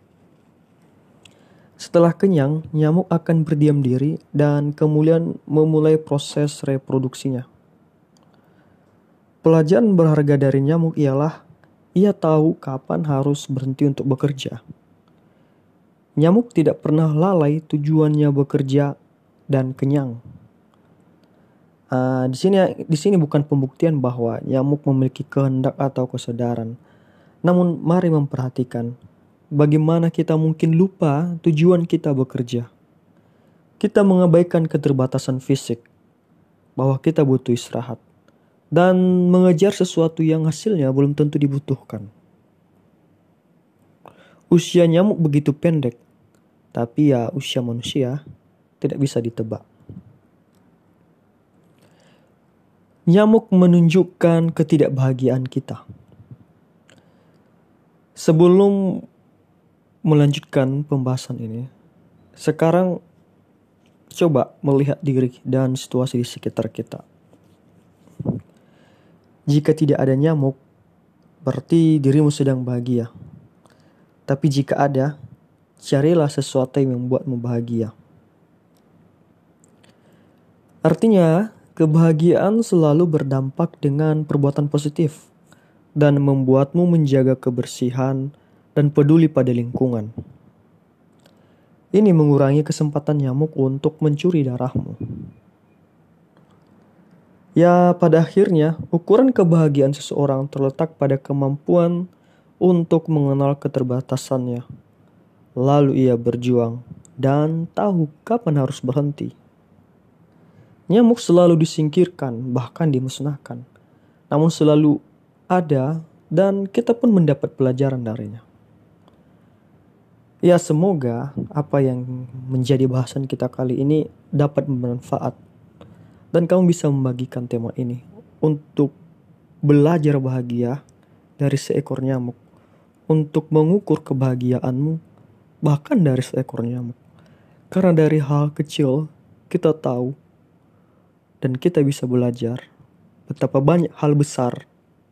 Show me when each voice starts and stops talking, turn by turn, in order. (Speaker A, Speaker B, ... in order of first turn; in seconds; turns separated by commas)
Speaker A: 1.8-7.5, Speaker A: 9.4-11.4, Speaker A: 12.0-14.6, Speaker A: 16.2-19.0, Speaker A: 19.5-20.2, Speaker A: 21.9-26.8, Speaker A: 27.4-28.9, Speaker A: 29.6-32.7, Speaker A: 33.8-35.9, Speaker A: 36.8-38.0, Speaker A: 38.7-42.1, Speaker A: 44.5-46.0, Speaker A: 46.7-48.2, Speaker A: 48.8-49.6, Speaker A: 53.1-55.8, Speaker A: 58.2-59.0, Speaker A: 60.1-61.7, Speaker A: 62.4-63.0, Speaker A: 64.1-67.0, Speaker A: 69.5-70.6, Speaker A: 71.5-73.1, Speaker A: 74.3-75.1, Speaker A: 75.8-77.9, Speaker A: 80.8-85.3, Speaker A: 86.0-90.1, Speaker A: 92.0-95.0, Speaker A: 97.6-102.1, Speaker A: 102.6-104.7, Speaker A: 105.6-109.3, Speaker A: 110.9-113.6, Speaker A: 114.3-115.0, Speaker A: 115.5-118.4, Speaker A: 120.4-125.4, Speaker A: 126.3-128.9, Speaker A: 129.7-130.8, Speaker A: 131.4-132.4, Speaker A: 133.1-135.0, Speaker A: 135.6-137.0, Speaker A: 137.7-140.2, Speaker A: 141.4-142.6, Speaker A: 143.3-144.7